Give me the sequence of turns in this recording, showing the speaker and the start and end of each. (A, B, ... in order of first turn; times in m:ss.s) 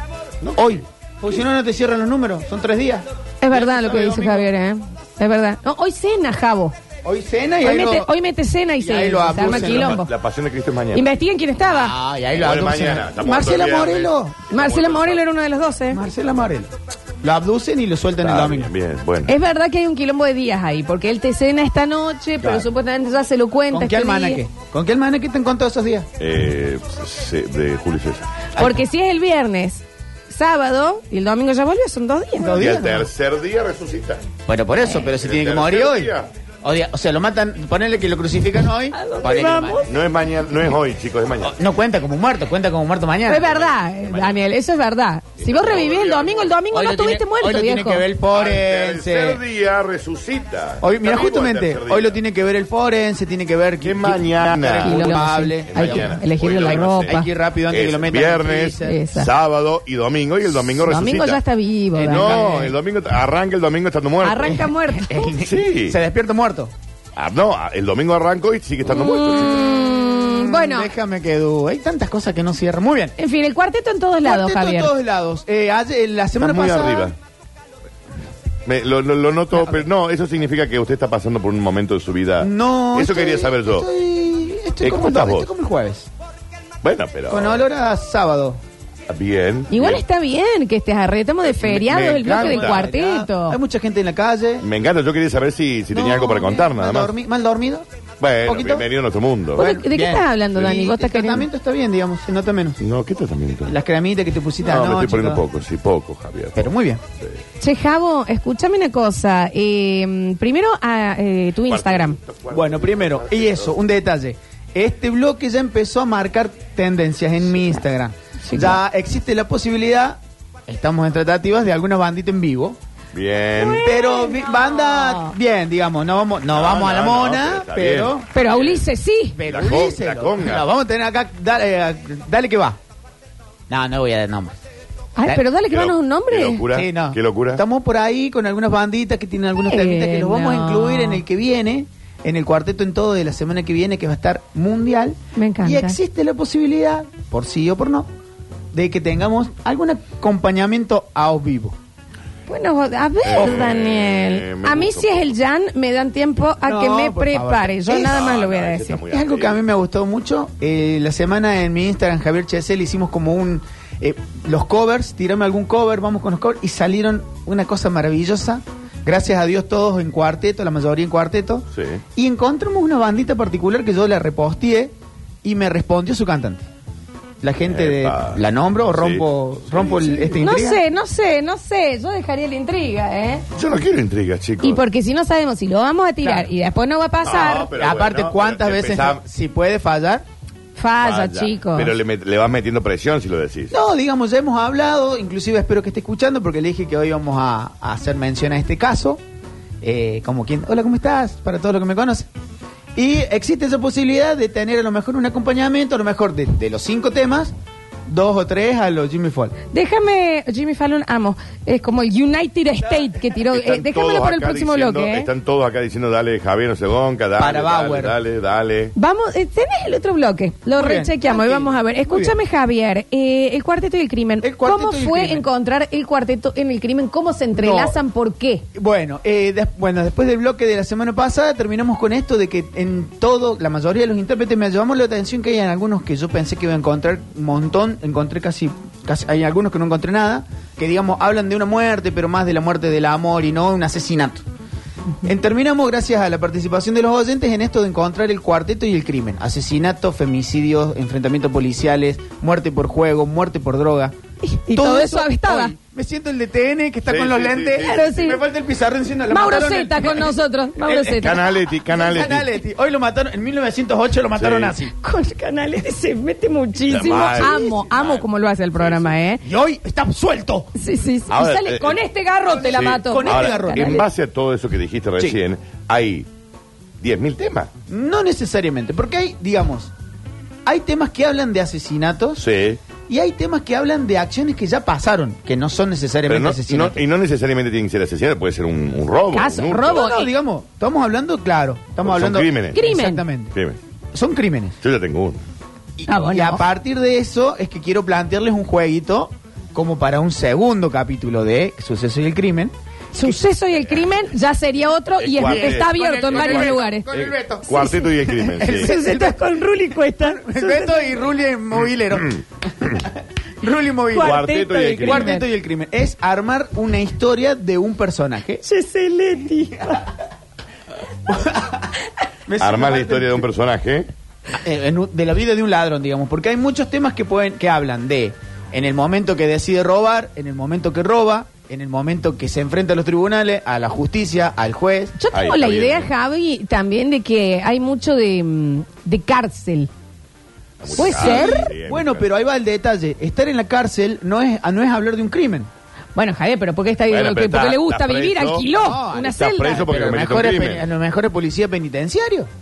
0:00.4-0:00.8 A
0:00.6-0:04.3 B
0:03.4-0:06.7 C
0:03.8-0:04.3 A
0:07.0-0:08.1 B
0:07.6-0:10.1 C
0:08.8-0:10.1 B
0:09.4-0:11.1 A
0:10.9-0:12.0 C
0:11.7-0:14.4 B
0:12.3-0:15.2 A
0:14.5-0:16.0 C
0:15.9-0:18.7 B
0:18.2-0:19.3 A
0:19.3-0:24.4 C
0:22.4-0:22.7 B
0:23.7-0:26.1 B
0:26.2-0:28.2 A
0:28.5-0:28.8 B
0:28.6-0:32.6 C
0:32.4-0:33.1 B
0:32.5-0:34.2 A
0:34.4-0:39.9 B
0:35.0-0:36.3 A
0:38.9-0:39.9 C
0:39.9-0:41.6 A
0:41.4-0:43.5 B
0:43.3-0:48.0 C
0:43.4-0:44.4 A
0:45.4-0:46.5 A
0:46.7-0:49.4 B
0:48.3-0:52.2 A
0:50.8-0:59.0 B
0:53.8-0:55.1 A
0:54.8-0:57.3 C
0:55.7-1:01.4 A
0:58.8-0:59.3 C
1:00.8-1:02.6 C
1:02.0-1:04.7 A
1:02.0-1:02.7 B
1:04.2-1:05.3 C
1:04.9-1:06.7 B
1:05.4-1:06.0 A
1:07.2-1:09.7 A
1:08.8-1:10.9 C
1:10.2-1:13.1 B
1:13.2-1:14.9 C
1:14.2-1:17.1 B
1:16.4-1:17.1 A
1:18.6-1:23.9 A
1:22.4-1:26.1 B
1:24.8-1:25.5 A
1:26.8-1:27.6 A
1:27.3-1:28.6 B
1:29.1-1:30.0 A
1:29.7-1:33.6 C
1:31.4-1:32.9 A
1:31.9-1:34.6 B
1:34.6-1:37.1 A
1:35.9-1:37.8 B
1:38.2-1:39.7 A
1:38.4-1:38.8 B
1:39.6-1:41.5 C
1:39.6-1:42.8 B
1:42.8-1:43.7 A
1:43.7-1:45.4 B
1:44.7-1:46.7 A
1:46.6-1:47.0 B
1:47.6-1:52.2 C
1:51.7-1:53.7 A
1:52.5-2:02.8 B
1:58.4-1:58.8 C
2:03.1-2:03.8 A
2:03.6-2:05.3 C
2:03.8-2:08.3 B
2:06.5-2:08.8 A
2:08.3-2:09.4 C
2:09.4-2:12.8 B
2:09.4-2:10.6 A
2:13.7-2:14.6 B
2:15.2-2:16.7 C
2:15.3-2:17.6 A
2:16.7-2:28.1 B
2:19.7-2:21.2 C
2:25.3-2:26.0 C
2:28.7-2:31.8 B
2:32.5-2:39.0 C
2:33.2-2:35.3 A
2:36.6-2:38.2 B
2:37.9-2:39.6 A
2:39.1-2:56.6 B
2:51.7-2:52.0 A
2:57.4-3:00.8 B
2:57.6-2:58.4 A
2:58.9-3:00.4 A
3:00.4-3:03.4 C
3:03.5-3:04.8 A
3:04.6-3:07.7 C
3:06.2-3:06.5 B
3:07.2-3:09.2 A
3:07.7-3:10.2 B
3:10.8-3:11.9 C
3:11.0-3:13.7 A
3:13.7-3:19.2 B
3:19.8-3:22.3 B
3:22.9-3:27.5 B
3:28.1-3:29.5 B
3:29.7-3:35.3 C
3:33.4-3:38.9 A
3:37.4-3:38.2 B
3:38.9-3:48.6 C
3:40.8-3:42.4 B
3:44.4-3:45.4 B
3:47.5-3:48.0 B
3:48.7-4:04.4 B
4:05.2-4:14.1 B
4:14.4-4:15.7 C
4:14.7-4:24.9 B
4:17.1-4:18.1 A
4:17.8-4:18.4 C
4:19.3-4:21.5 C
4:20.9-4:22.5 A
4:24.3-4:24.8 A
4:25.0-4:29.4 C
4:26.8-4:29.1 A
4:27.1-4:27.7 B
4:29.4-4:30.7 B
4:30.7-4:34.0 C
4:31.3-4:32.0 A
4:32.7-4:36.3 A
4:32.7-4:34.0 B
4:37.0-4:37.7 A
4:37.9-4:39.9 B
4:40.6-4:42.4 B
4:42.4-4:42.8 A
4:43.1-4:47.0 B
4:46.3-4:50.0 A
4:49.3-4:50.3 C
4:49.8-4:53.5 B
4:52.0-4:52.8 A
4:52.7-4:53.2 C
4:54.1-4:54.8 B
4:54.8-4:55.4 A
4:56.0-5:03.4 B
4:56.1-4:56.6 C
5:03.1-5:07.1 C
5:05.2-5:08.9 A
5:05.4-5:14.4 B
5:08.6-5:11.1 C
5:14.1-5:15.4 C
5:14.2-5:15.3 A
5:15.0-5:18.6 B
5:18.6-5:20.0 C
5:21.2-5:21.9 B
5:22.5-5:23.5 B
5:22.6-5:24.1 A
5:24.5-5:35.1 B
5:35.2-5:39.9 C
5:35.3-5:36.1 A
5:40.8-5:42.2 A
5:40.9-5:45.7 B
5:41.0-5:41.7 C
5:46.1-5:49.8 C
5:47.1-5:50.8 A
5:48.7-5:52.5 B